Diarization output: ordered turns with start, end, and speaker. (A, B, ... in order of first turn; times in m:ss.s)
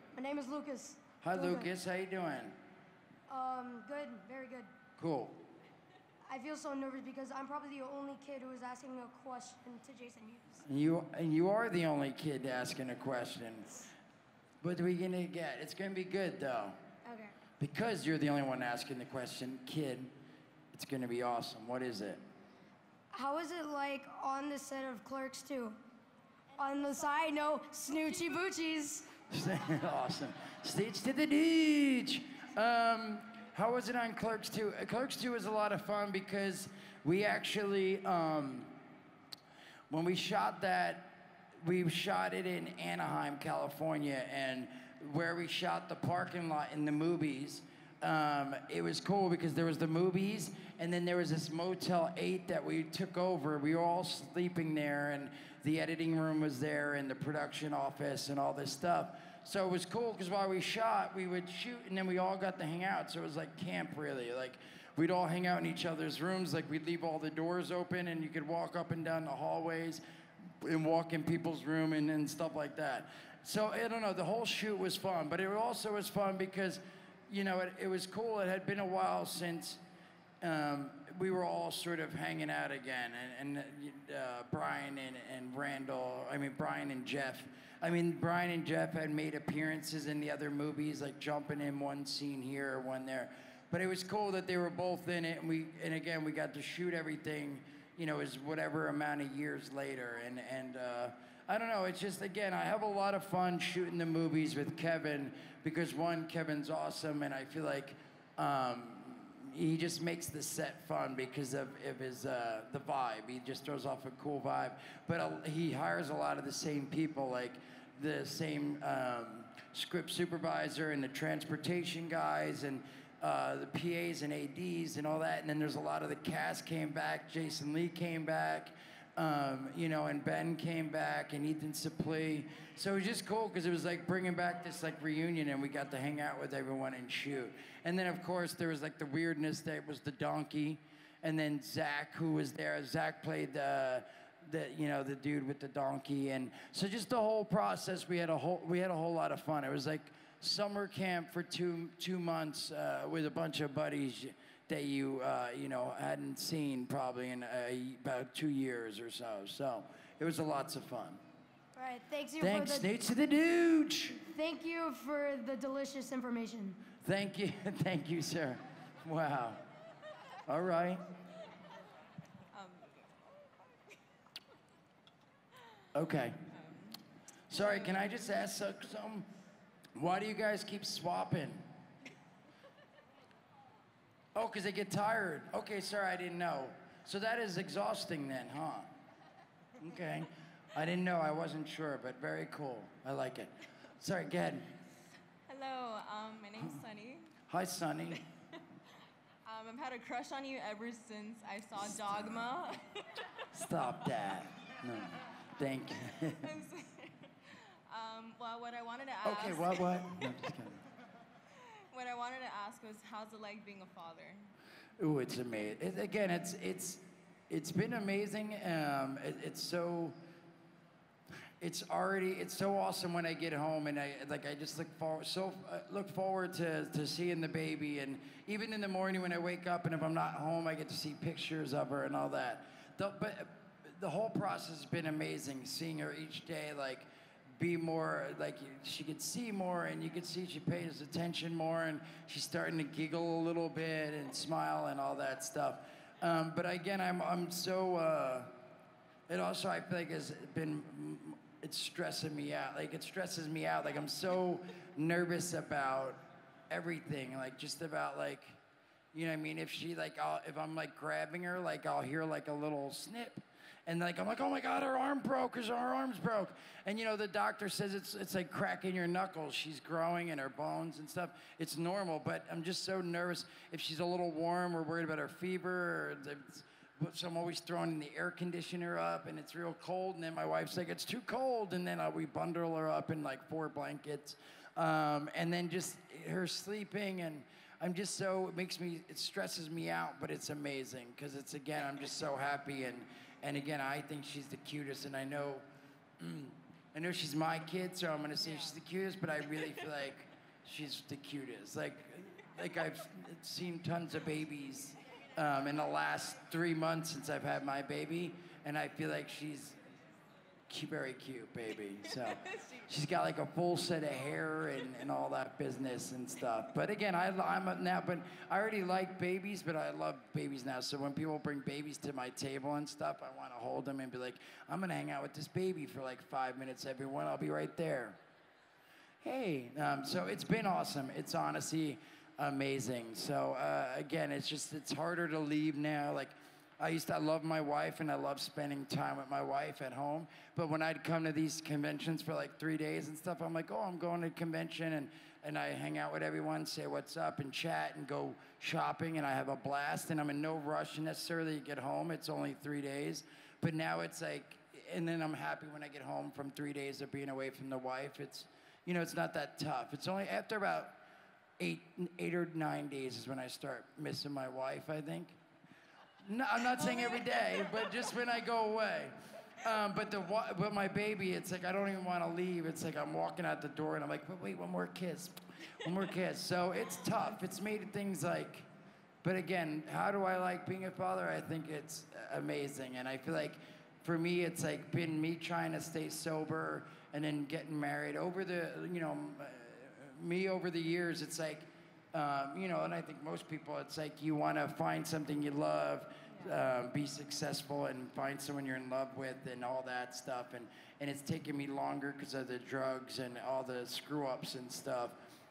0:00.1-0:01.7 A
0:01.2-0:02.6 B
0:03.3-0:04.7 A
0:05.0-0:05.4 B
0:06.3-0:10.6 A
0:10.7-0:13.9 B
0:14.6-0:16.8 B
0:17.0-0:17.3 A
0:17.6-0:20.1 B
0:20.7-0:22.2 B
0:23.1-0:25.8 A
0:26.6-0:29.1 A
0:29.3-0:38.8 B
0:39.9-1:10.0 B
1:10.6-1:19.8 B
1:20.4-2:41.2 B
2:41.8-2:42.9 A
2:42.4-2:44.2 B
2:44.2-2:46.8 A
2:47.0-2:49.6 B
2:50.5-2:51.0 B
2:52.5-2:53.1 C
2:55.9-2:56.4 B
2:56.5-2:57.0 C
2:57.5-2:59.3 B
2:57.6-2:58.0 C
3:00.0-3:01.6 B
3:04.4-3:08.9 B
3:09.8-3:14.7 B
3:15.5-3:17.3 C
3:17.5-3:18.2 B
3:19.5-3:22.8 C
3:21.9-3:22.5 B
3:23.5-3:26.4 B
3:26.4-3:30.2 C
3:29.2-3:30.8 B
3:31.9-3:34.5 C
3:35.0-3:40.2 B
3:41.6-4:08.6 B
4:09.3-4:18.6 B
4:19.1-4:55.6 B
4:56.2-5:09.8 B
5:10.7-5:28.2 B
5:12.4-5:12.8 C
5:29.2-6:01.0 B
6:01.6-6:05.4 B
6:06.2-6:18.7 B
6:07.0-6:07.3 C
6:19.2-6:45.2 B